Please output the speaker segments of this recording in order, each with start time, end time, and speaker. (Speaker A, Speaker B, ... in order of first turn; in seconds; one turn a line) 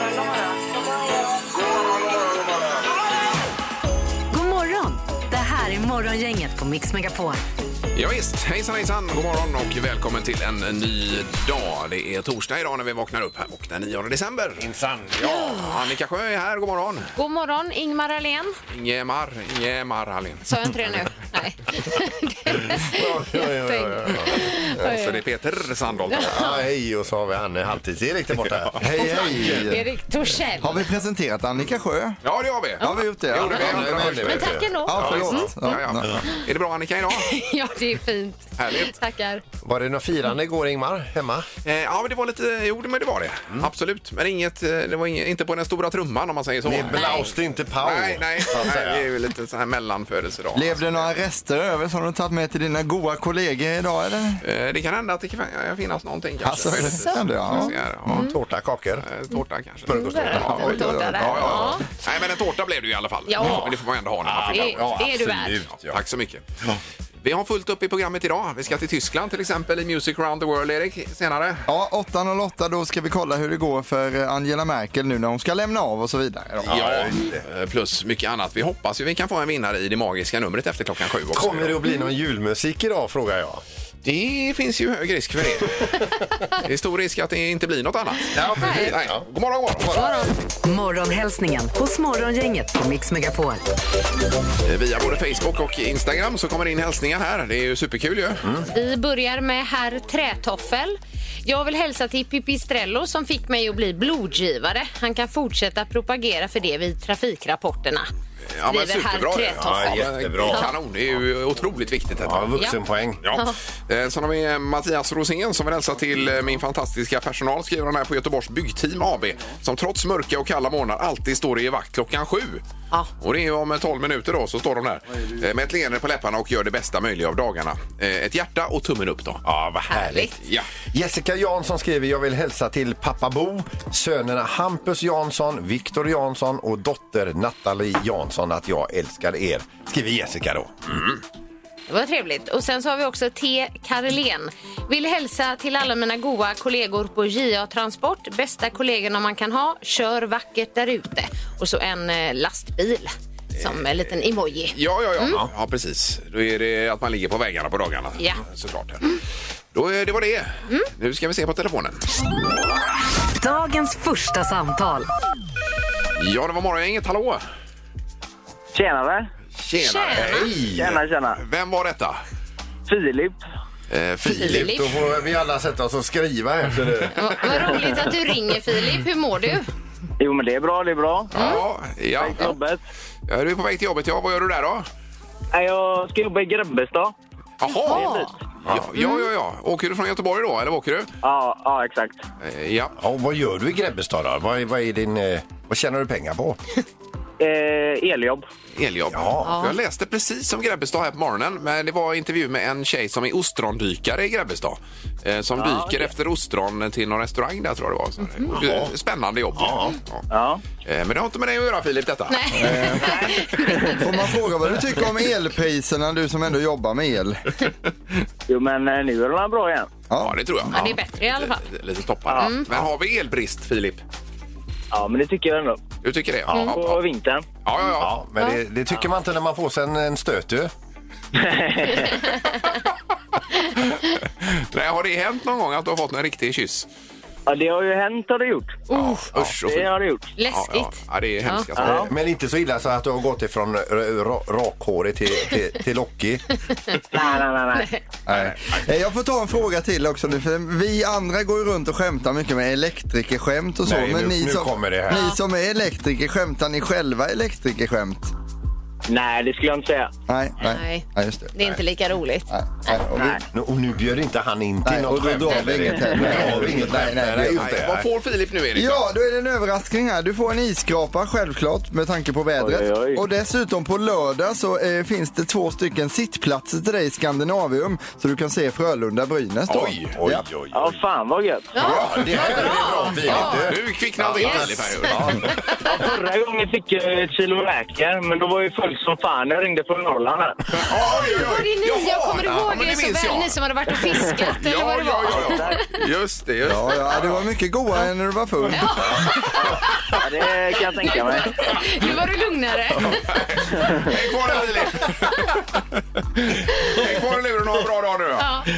Speaker A: 4.3-7.4
Speaker B: 7.9-14.7
Speaker C: 14.6-15.5
Speaker D: 15.2-15.8
Speaker B: 15.2-17.1
Speaker D: 17.1-18.6
Speaker B: 18.7-20.5
Speaker D: 20.4-25.2
Speaker C: 22.8-24.5
Speaker B: 24.7-26.4
Speaker D: 26.1-26.6
Speaker C: 26.3-29.4
Speaker E: 28.8-29.9
Speaker D: 29.0-30.8
Speaker E: 30.6-32.2
Speaker B: 32.2-37.3
Speaker E: 32.8-34.0
Speaker C: 33.4-35.4
Speaker D: 34.2-35.5
Speaker E: 34.8-36.1
Speaker D: 37.1-39.4
Speaker B: 38.6-38.9
Speaker C: 39.6-41.5
Speaker B: 41.6-47.3
Speaker C: 46.6-49.1
Speaker D: 46.9-47.3
Speaker B: 47.8-51.1
Speaker E: 50.5-54.4
Speaker B: 54.4-58.3
Speaker E: 56.4-57.7
Speaker D: 56.8-58.3
Speaker C: 58.0-59.1
Speaker B: 59.0-65.1
Speaker C: 59.9-60.8
Speaker D: 59.9-61.8
Speaker E: 60.4-61.8
Speaker D: 63.3-63.8
Speaker C: 63.4-63.7
Speaker C: 64.2-66.0
Speaker D: 64.4-65.6
Speaker B: 65.8-66.4
Speaker B: 67.2-71.7
Speaker E: 71.7-76.7
Speaker C: 76.6-77.4
Speaker B: 76.7-81.8
Speaker C: 81.3-83.6
Speaker B: 84.0-90.1
Speaker C: 88.3-89.2
Speaker D: 88.5-89.0
Speaker D: 89.9-90.3
Speaker A: 90.6-93.6
Speaker B: 94.6-98.5
Speaker D: 98.7-108.1
Speaker B: 108.5-112.5
Speaker D: 108.7-110.7
Speaker C: 109.5-110.7
Speaker C: 112.2-113.2
Speaker B: 113.2-122.6
Speaker B: 123.2-129.4
Speaker C: 129.4-141.2
Speaker D: 129.9-130.3
Speaker B: 130.4-130.7
Speaker D: 141.9-155.4
Speaker B: 154.7-159.2
Speaker B: 159.7-162.1
Speaker A: 163.4-165.1
Speaker B: 166.2-167.4
Speaker F: 168.7-169.3
Speaker B: 169.6-170.5
Speaker D: 169.8-170.5
Speaker C: 170.1-171.0
Speaker F: 170.7-171.4
Speaker B: 171.4-172.2
Speaker F: 172.9-173.4
Speaker B: 173.9-175.1
Speaker C: 174.2-177.5
Speaker D: 174.4-174.9
Speaker D: 177.1-179.7
Speaker F: 180.2-181.6
Speaker B: 181.3-182.6
Speaker D: 181.3-181.6
Speaker F: 182.2-182.8
Speaker B: 183.3-184.9
Speaker F: 185.5-187.1
Speaker B: 187.6-188.1
Speaker D: 187.7-188.3
Speaker F: 187.9-188.3
Speaker C: 188.7-188.9
Speaker B: 188.7-191.1
Speaker D: 189.0-189.2
Speaker F: 191.2-192.2
Speaker B: 192.4-192.9
Speaker C: 192.9-196.6
Speaker F: 197.4-198.4
Speaker B: 198.8-210.2
Speaker C: 199.1-199.6
Speaker D: 199.4-199.8
Speaker F: 205.6-206.1
Speaker C: 208.5-208.9
Speaker C: 209.6-209.9
Speaker F: 210.3-210.6
Speaker B: 210.8-213.0
Speaker D: 212.3-214.0
Speaker E: 212.6-213.0
Speaker F: 213.0-214.0
Speaker E: 213.9-217.5
Speaker F: 218.5-219.9
Speaker E: 220.1-220.3
Speaker B: 220.2-224.0
Speaker D: 220.7-221.6
Speaker D: 222.3-222.7
Speaker F: 224.9-225.8
Speaker B: 226.0-227.0
Speaker C: 226.5-226.8
Speaker F: 226.8-227.4
Speaker B: 227.6-228.1
Speaker C: 228.0-230.7
Speaker F: 231.3-232.2
Speaker D: 232.0-232.6
Speaker B: 233.7-236.9
Speaker F: 237.5-238.8
Speaker D: 238.9-239.3
Speaker B: 238.9-239.9
Speaker F: 239.5-240.3
Speaker D: 240.4-241.9
Speaker B: 240.5-242.1
Speaker F: 241.8-242.1
Speaker C: 241.9-246.4
Speaker D: 246.7-248.0
Speaker F: 247.1-247.9
Speaker E: 248.3-258.3
Speaker B: 248.3-248.8
Speaker C: 253.8-255.2
Speaker D: 255.1-255.4
Speaker F: 259.1-260.1
Speaker E: 260.3-261.5
Speaker D: 260.6-263.0
Speaker E: 262.5-263.4
Speaker F: 263.1-263.4
Speaker C: 263.5-268.1
Speaker E: 264.8-267.7
Speaker F: 265.6-266.2
Speaker B: 267.6-269.0
Speaker E: 268.7-280.4
Speaker F: 272.6-273.2
Speaker B: 279.7-280.1
Speaker C: 280.1-281.0
Speaker F: 280.7-281.8
Speaker D: 281.7-283.6
Speaker C: 281.8-285.5
Speaker B: 281.8-282.7
Speaker B: 283.2-285.6
Speaker D: 284.4-286.0
Speaker F: 285.9-290.6
Speaker B: 290.8-293.6
Speaker D: 291.1-296.0
Speaker B: 294.3-297.4
Speaker F: 295.3-295.8
Speaker E: 296.6-299.2
Speaker D: 298.7-300.1
Speaker F: 299.7-301.6
Speaker D: 301.0-303.3
Speaker B: 303.0-308.6
Speaker F: 303.7-304.1
Speaker D: 305.0-305.4
Speaker D: 306.7-307.1
Speaker D: 308.4-308.7